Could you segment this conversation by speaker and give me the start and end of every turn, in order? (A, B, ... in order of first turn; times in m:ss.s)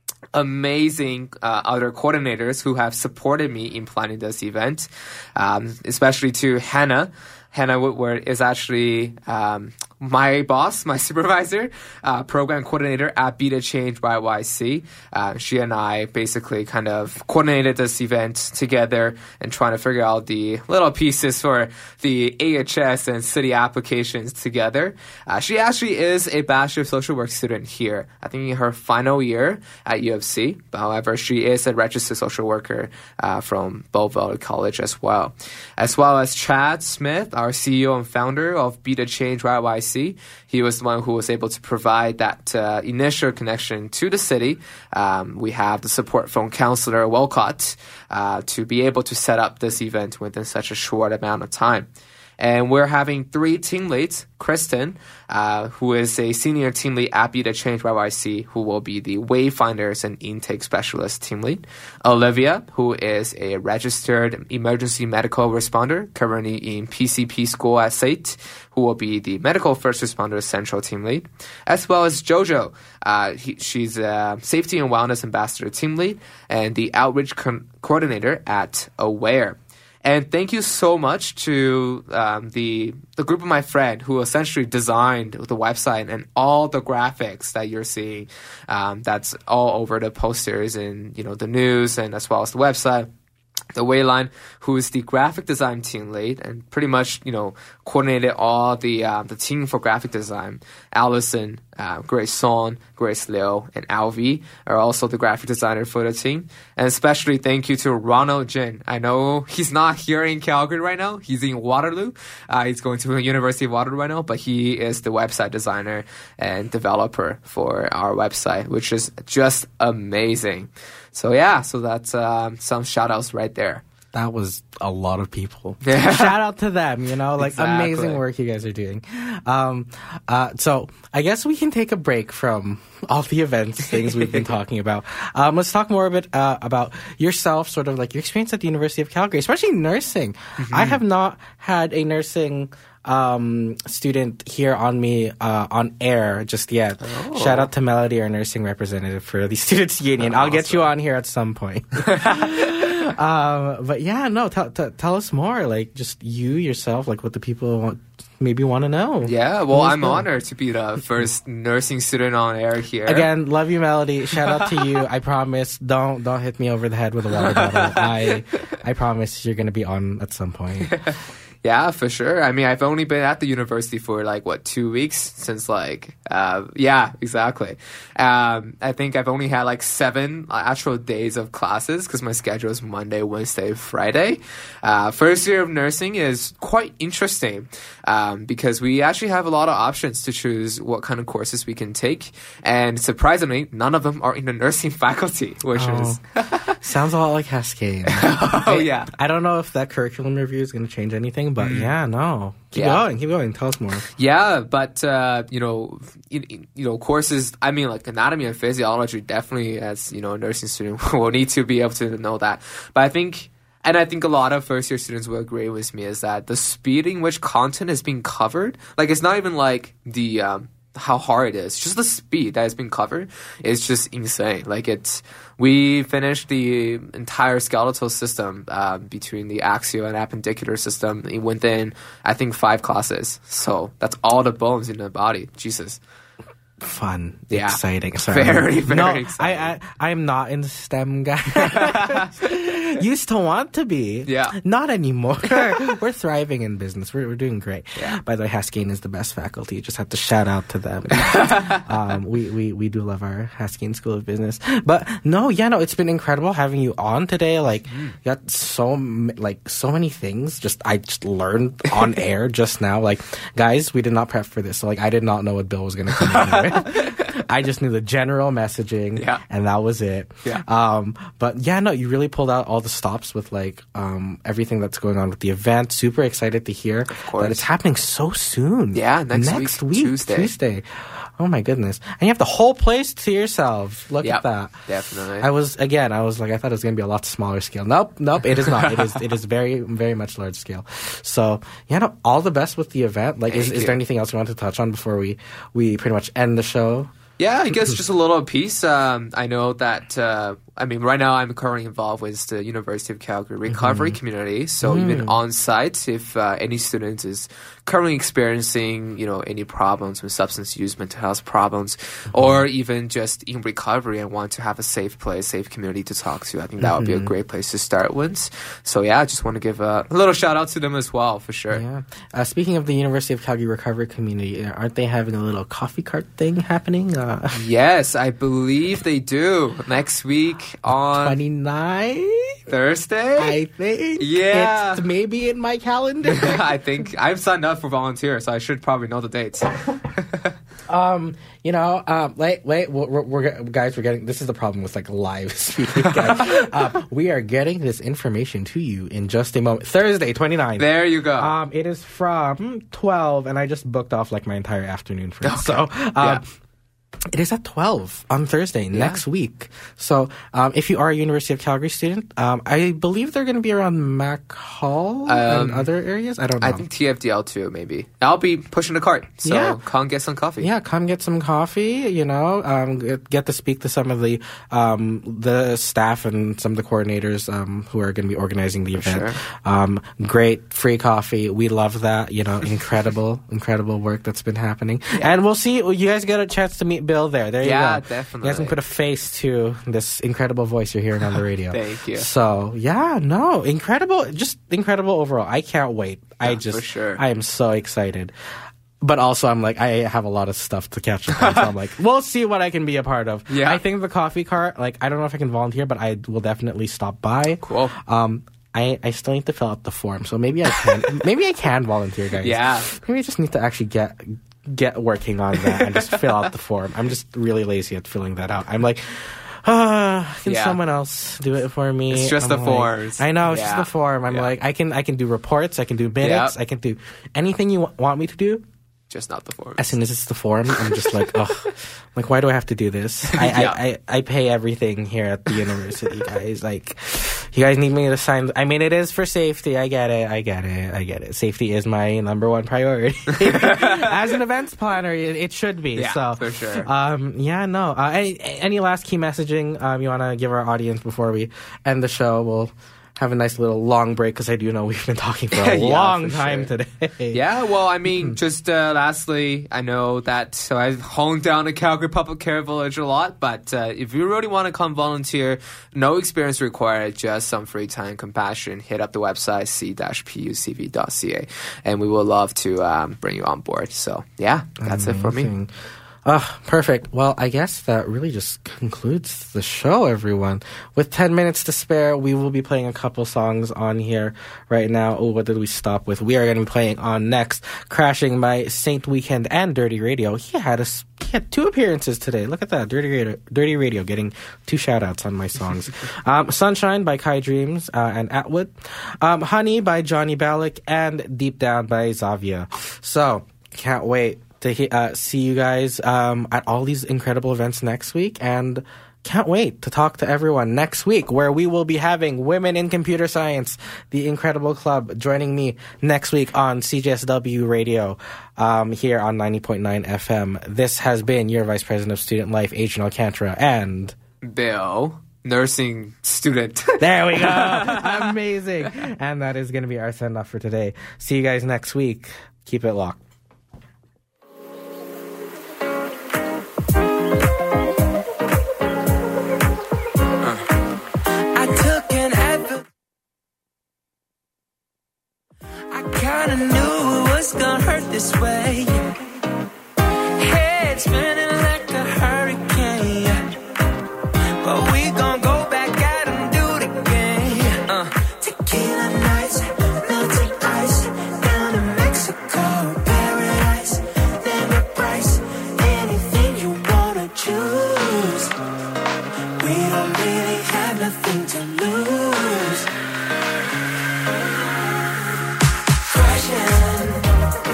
0:00.3-1:33.1 A
1:33.7-2:03.8 A
2:04.1-2:40.2 B
2:05.8-2:06.4 A
2:07.4-2:08.2 A
2:14.0-2:14.5 A
2:20.6-2:21.0 A
2:27.0-2:27.7 A
2:30.2-2:30.9 A
2:32.0-2:32.9 A
2:39.2-2:43.3 A
2:43.1-2:51.0 B
2:44.4-2:44.9 A
2:47.3-2:48.4 A
2:50.9-3:16.8 A
3:15.7-3:16.2 B
3:16.7-3:24.0 B
3:18.1-3:19.1 A
3:21.6-3:21.9 A
3:22.7-3:23.0 A
3:24.2-3:56.0 A
3:56.8-4:44.7 B
3:57.5-3:59.7 A
4:01.6-4:02.3 A
4:04.2-4:04.6 A
4:11.2-4:11.8 A
4:26.2-4:27.3 A
4:29.2-4:29.4 A
4:37.1-4:37.6 A
4:38.9-4:40.5 A
4:44.2-4:45.5 A
4:45.4-4:57.1 B
4:53.5-4:54.0 A
4:57.4-5:21.8 A
5:03.7-5:04.2 B
5:04.8-5:05.4 B
5:12.3-5:12.6 B
5:16.8-5:17.3 B
5:21.7-5:27.6 B
5:27.5-5:31.4 A
5:31.1-5:32.6 B
5:32.7-5:33.6 A
5:33.4-5:36.7 B
5:34.2-5:35.0 A
5:36.3-5:40.5 A
5:40.9-5:56.4 B
5:46.0-5:46.7 A
5:50.8-5:51.5 A
5:55.4-5:56.4 A
5:57.3-6:06.8 B
5:58.9-5:59.2 A
6:05.3-6:05.9 A
6:06.6-6:10.7 A
6:09.4-6:09.8 B
6:10.6-6:38.3 B
6:19.0-6:19.4 A
6:27.6-6:28.8 A
6:31.7-6:32.3 A
6:36.4-6:37.2 A
6:39.0-7:08.6 B
6:41.4-6:41.7 A
6:43.5-6:43.8 A
6:47.6-6:47.9 A
6:52.4-6:52.9 A
6:55.7-6:56.5 A
7:00.4-7:00.8 A
7:02.1-7:04.5 A
7:06.2-7:06.5 A
7:09.1-7:10.0 A
7:09.8-7:37.4 B
7:10.7-7:11.3 A
7:13.3-7:13.8 A
7:23.4-7:24.3 A
7:26.0-7:26.9 A
7:35.5-7:36.7 A
7:37.3-7:55.5 A
7:38.1-7:38.4 B
7:54.8-7:55.7 B
7:56.2-8:44.2 B
8:44.4-8:48.3 A
8:47.0-8:53.2 B
9:01.5-9:02.8 C
9:05.9-9:09.2 C
9:10.4-9:13.4 C
9:14.6-9:28.5 C
9:29.6-9:32.9 C
9:36.0-9:37.3 C